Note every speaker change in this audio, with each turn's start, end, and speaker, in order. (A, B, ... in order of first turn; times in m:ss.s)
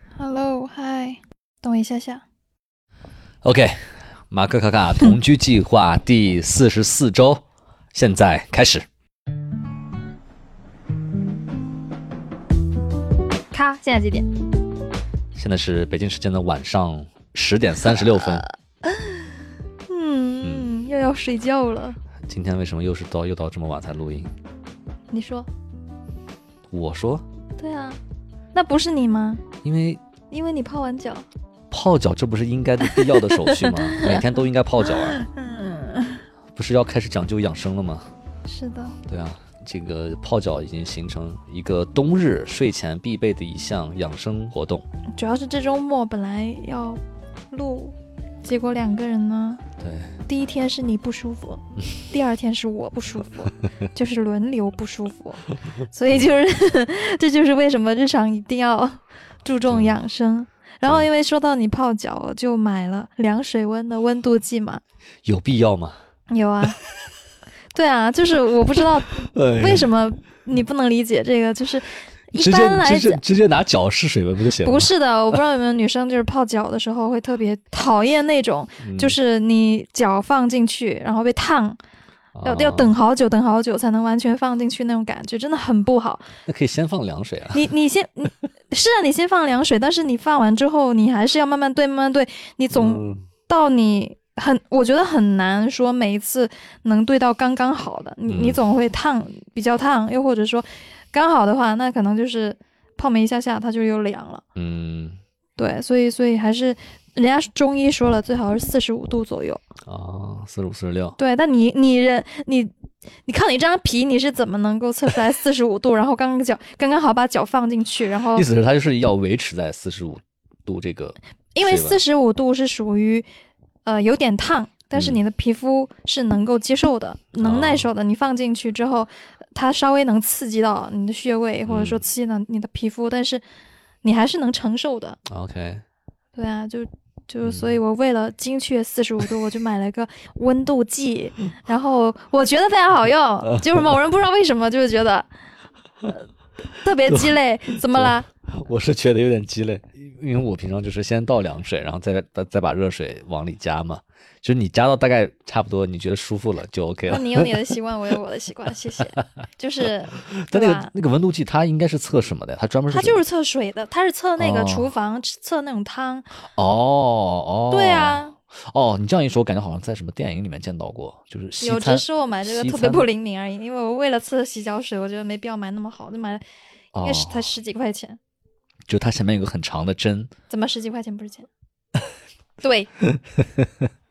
0:00.2-0:02.2 A
0:03.4-0:08.9 B
0:13.5-0:14.3 A
0:15.3-0:18.5 B
0:17.8-0:22.0 A
0:20.4-0:20.7 B
0:22.3-0:24.3 B
0:25.1-0:25.5 A
0:26.7-0:27.2 B
0:27.6-0:28.0 A
0:28.5-0:29.4 A
0:29.6-0:30.0 B
0:30.3-0:31.3 A
0:31.7-0:35.2 B
0:32.9-0:34.2 A
0:34.8-0:36.2 A
0:36.6-0:38.1 B
0:38.4-0:39.0 A
0:39.0-0:44.8 B
0:45.1-0:49.6 A
0:49.8-0:50.2 B
0:50.3-1:04.8 A
0:59.7-1:00.0 B
1:05.2-1:06.0 B
1:06.3-1:06.8 A
1:07.7-1:13.2 A
1:09.1-1:09.9 B
1:12.4-1:14.9 B
1:14.6-1:21.8 A
1:18.8-1:19.2 B
1:22.3-1:22.9 B
1:22.4-1:26.3 A
1:26.4-1:27.7 B
1:27.5-1:44.4 A
1:32.7-1:33.3 B
1:38.3-1:38.6 B
1:44.6-1:45.2 B
1:45.6-1:49.6 A
1:49.8-1:51.2 B
1:51.2-1:52.8 A
1:53.2-1:58.5 A
1:58.3-2:02.0 B
2:01.6-2:03.3 A
2:03.8-2:13.4 A
2:04.9-2:05.2 B
2:07.4-2:07.9 B
2:11.6-2:12.0 B
2:14.0-2:15.2 A
2:15.3-2:15.8 B
2:16.3-2:25.3 A
2:17.4-2:17.7 B
2:23.4-2:23.9 B
2:26.8-2:28.3 A
2:27.0-2:37.5 B
2:37.1-2:40.9 A
2:40.2-2:43.2 B
2:42.9-2:46.3 A
2:44.4-2:44.9 B
2:46.4-2:53.1 B
2:47.7-2:48.3 A
2:51.6-2:56.4 A
2:56.9-2:57.5 B
2:57.0-2:58.2 A
2:58.9-3:00.3 B
3:00.5-3:01.5 A
3:02.6-3:02.9 A
3:03.0-3:03.9 B